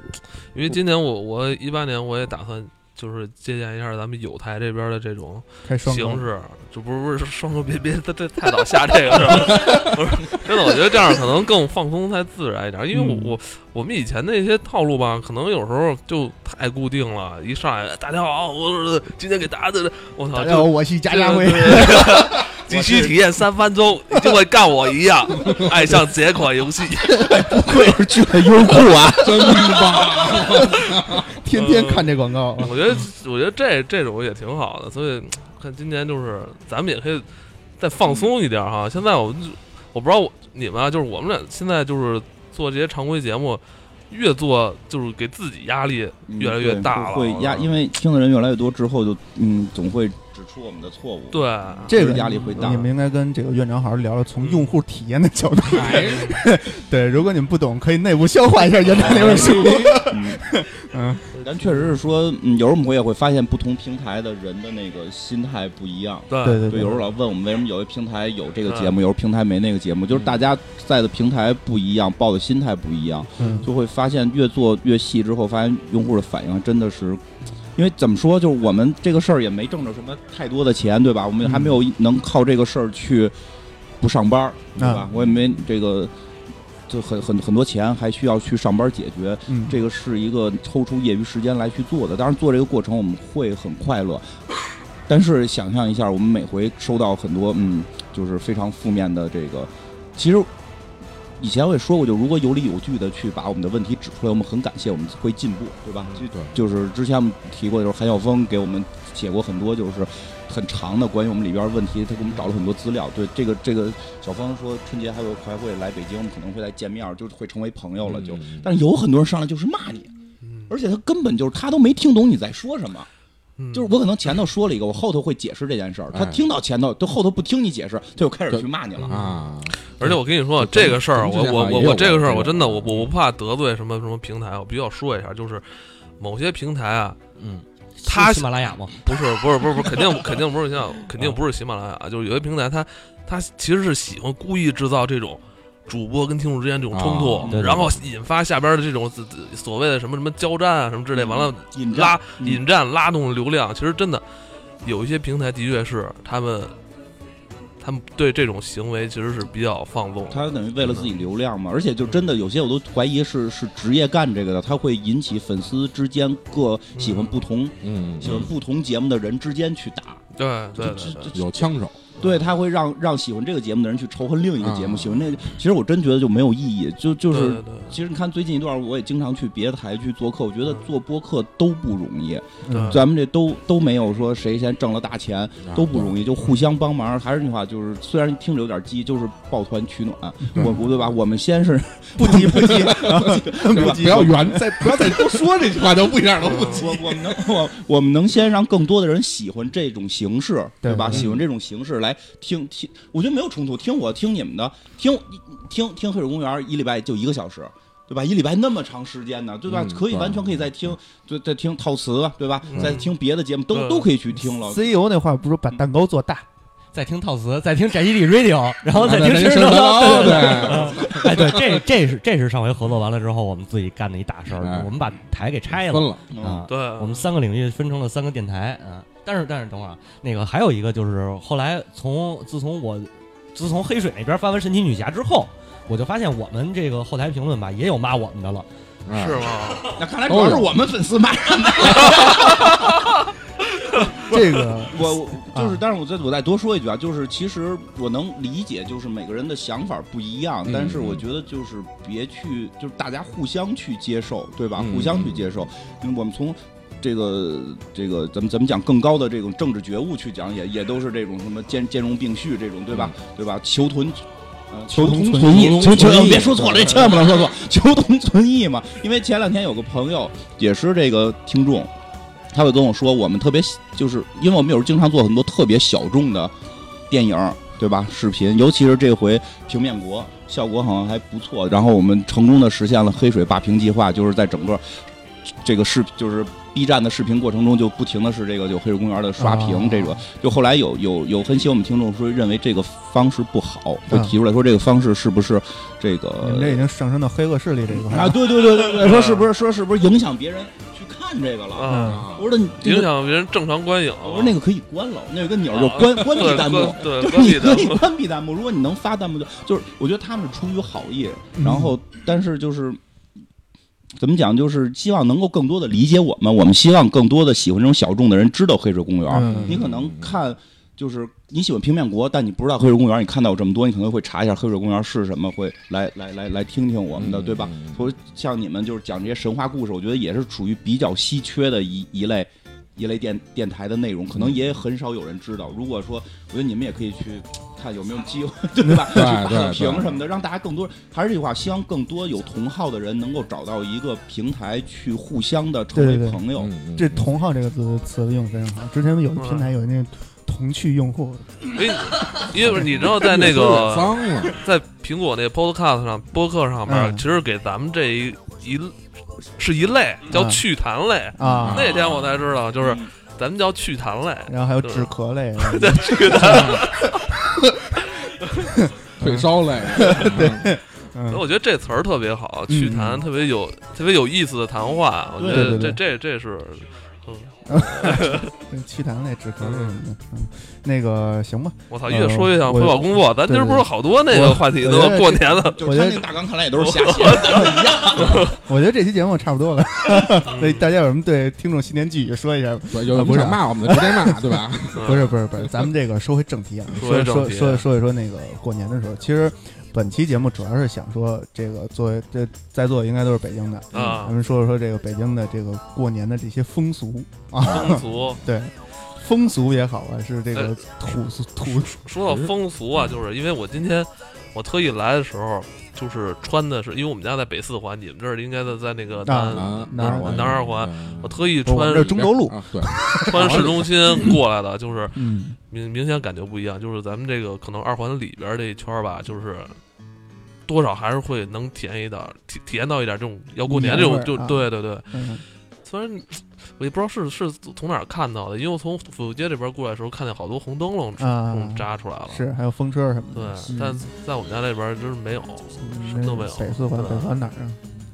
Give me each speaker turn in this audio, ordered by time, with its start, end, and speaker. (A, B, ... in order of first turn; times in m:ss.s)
0:00.5-0:27.4 A
0:05.6-0:06.3 B
0:12.9-0:13.4 B
0:20.3-0:23.1 B
0:22.7-0:23.0 C
0:27.1-0:32.8 B
0:27.5-0:29.6 C
0:29.2-0:31.4 D
0:31.5-0:37.3 A
0:37.8-0:47.7 A
0:38.0-0:38.3 C
0:46.3-0:52.9 C
0:51.3-0:52.8 A
0:51.9-1:01.4 B
0:54.4-0:54.8 A
0:55.7-0:56.3 D
0:56.0-0:56.4 A
0:59.0-1:00.0 D
0:59.2-1:00.4 C
1:01.3-1:01.6 A
1:01.4-1:17.2 C
1:06.3-1:06.9 A
1:06.4-1:07.1 B
1:08.6-1:09.0 A
1:13.4-1:13.7 B
1:17.8-1:23.3 C
1:21.4-1:21.8 B
1:24.0-1:26.1 C
1:24.8-1:25.1 B
1:25.2-1:25.5 D
1:26.9-1:34.3 C
1:29.5-1:29.8 B
1:35.1-1:40.5 C
1:41.4-2:00.1 C
1:46.1-1:46.6 D
1:58.0-1:58.7 D
2:00.4-2:00.7 A
2:00.7-2:03.1 C
2:03.6-2:04.0 A
2:03.7-2:09.2 C
2:06.1-2:06.4 D
2:08.5-2:13.1 D
2:09.0-2:15.7 A
2:16.2-2:17.2 A
2:17.4-2:19.0 E
2:18.1-2:34.2 A
2:26.9-2:27.8 D
2:27.5-2:27.9 E
2:31.1-2:32.6 C
2:34.8-2:36.8 A
2:37.8-2:41.0 A
2:40.3-2:50.2 C
2:42.0-2:42.3 A
2:47.0-2:47.4 A
2:47.8-2:48.5 D
2:50.4-2:51.4 A
2:50.8-2:51.4 C
2:50.8-2:52.1 D
2:52.2-3:14.4 C
2:54.6-2:55.3 D
2:57.3-2:58.0 A
3:02.6-3:03.0 B
3:02.7-3:03.0 A
3:05.6-3:06.2 D
3:10.5-3:10.8 B
3:10.6-3:10.8 D
3:12.2-3:15.5 B
3:12.7-3:17.4 D
3:16.4-3:16.9 A
3:16.4-3:34.9 C
3:20.8-3:21.3 B
3:21.1-3:21.4 D
3:29.7-3:30.7 D
3:32.7-3:33.2 A
3:33.7-3:34.1 A
3:34.6-3:36.5 B
3:36.9-3:58.7 E
3:38.9-3:41.8 D
3:40.8-3:41.2 C
3:44.6-3:44.9 D
3:45.8-3:46.3 D
3:46.3-3:46.6 C
3:46.7-3:47.3 A
3:59.1-3:59.7 D
3:59.1-3:59.9 A
3:59.9-4:03.0 C
4:00.3-4:00.8 D
4:02.2-4:02.7 A
4:04.3-4:05.8 B
4:04.9-4:31.9 C
4:10.7-4:11.2 D
4:14.8-4:15.6 D
4:22.9-4:23.2 D
4:24.9-4:27.2 B
4:25.4-4:27.1 D
4:32.5-4:36.5 C
4:37.1-4:45.0 C
4:45.6-4:56.8 C
4:49.4-4:50.2 B
4:54.1-4:54.4 B
4:56.4-4:58.4 B
4:57.9-5:03.1 C
4:58.6-4:59.5 A
5:01.7-5:02.2 A
5:01.9-5:02.3 B
5:02.1-5:02.5 D
5:02.8-5:04.6 A
5:04.2-5:13.0 C
5:05.7-5:08.1 A
5:11.6-5:12.0 B
5:14.2-5:46.7 C
5:19.3-5:19.8 B
5:19.4-5:20.4 D
5:27.2-5:28.0 D
5:34.4-5:34.8 D
5:39.1-5:40.1 D
5:45.9-5:51.7 B
5:46.6-5:47.3 D
5:49.4-5:49.7 A
5:51.7-5:59.0 A
5:52.5-5:54.6 D
5:56.9-5:57.3 B
5:59.6-6:07.3 A
6:00.3-6:00.6 B
6:01.4-6:01.9 B
6:01.4-6:02.4 D
6:02.8-6:03.1 C
6:04.5-6:07.9 B
6:06.4-6:06.8 D
6:08.7-6:11.4 B
6:09.2-6:10.7 D
6:11.3-6:18.5 A
6:12.7-6:13.2 B
6:15.4-6:16.0 C
6:15.5-6:16.0 B
6:17.7-6:26.3 B
6:19.6-6:20.0 A
6:21.9-6:25.8 A
6:25.8-6:28.5 C
6:26.8-6:28.6 A
6:27.5-6:52.0 B
6:30.5-6:30.9 A
6:32.9-6:35.2 D
6:35.0-6:35.4 A
6:37.0-6:37.9 A
6:43.9-6:44.4 A
6:43.9-6:44.2 D
6:47.6-6:48.4 A
6:47.7-6:48.0 D
6:51.7-7:02.3 A
6:52.2-6:53.2 D
6:59.2-7:00.6 B
6:59.5-7:01.5 D
7:01.6-7:04.4 B
7:02.1-7:03.9 D
7:03.3-7:05.2 A
7:05.2-7:05.6 B
7:05.7-7:09.8 A
7:10.7-7:15.2 A
7:13.7-7:15.4 B
7:15.8-7:22.5 A
7:21.2-7:24.0 B
7:23.3-7:27.4 A
7:25.8-7:27.8 B